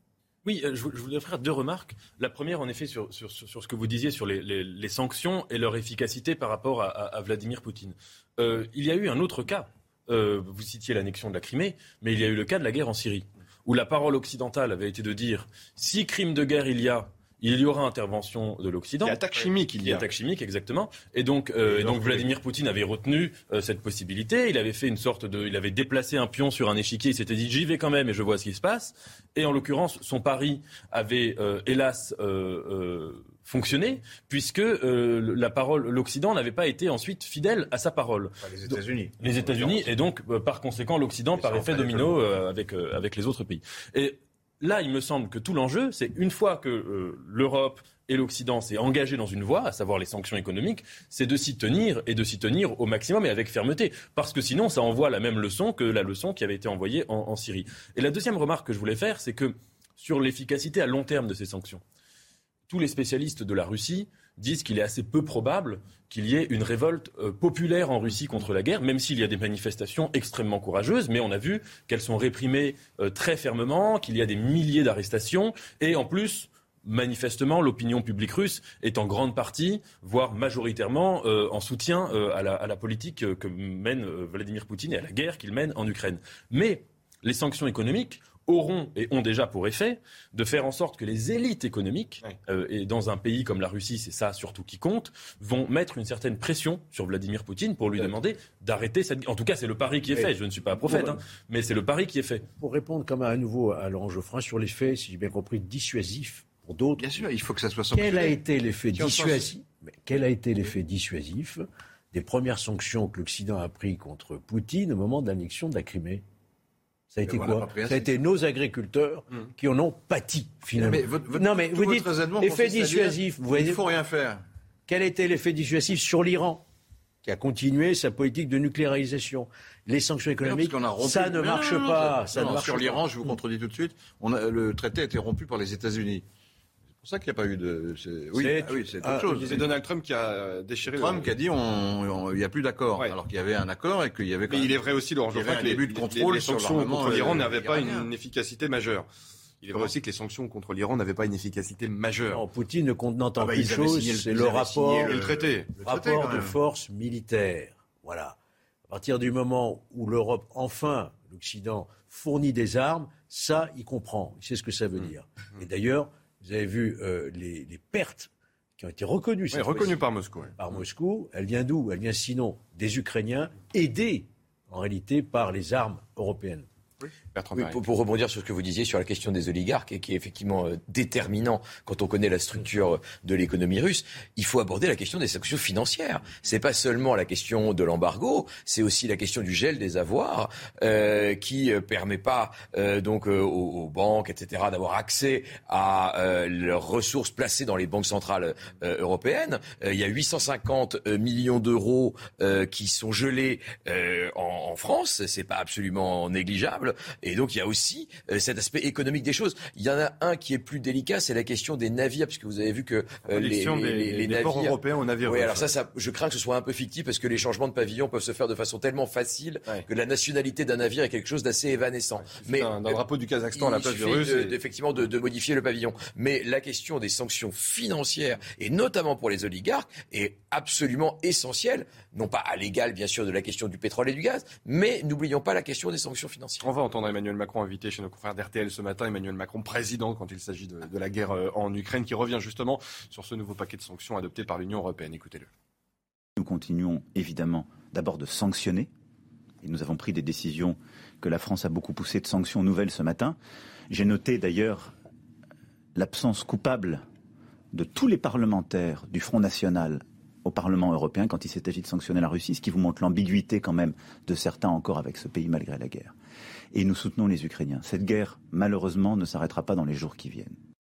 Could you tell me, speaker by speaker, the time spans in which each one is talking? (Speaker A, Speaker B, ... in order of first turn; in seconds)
Speaker A: 0.4-19.2, 19.8-61.8, 62.7-102.4
Speaker B: 19.0-20.0, 139.3-141.3, 144.5-149.1, 149.6-152.4, 155.1-155.7, 169.5-170.6, 177.3-177.8, 213.3-215.7, 222.3-224.6, 236.6-245.5
Speaker C: 21.6-22.3, 38.4-39.9, 41.4-42.2, 107.0-108.4, 108.9-109.5, 117.2-118.2, 120.7-124.4, 130.4-136.2, 137.0-139.7, 140.8-148.1, 153.4-156.6
Speaker D: 100.1-101.2, 102.6-107.1, 107.9-116.2, 117.1-123.8, 124.9-126.6, 127.2-133.3, 138.3-139.6, 152.3-155.2, 155.8-170.0, 170.6-176.7
Speaker E: 177.5-223.0, 223.5-236.6
Speaker F: 246.4-248.9, 249.6-253.4, 253.9-254.9, 255.9-257.0, 257.7-266.1, 266.7-270.6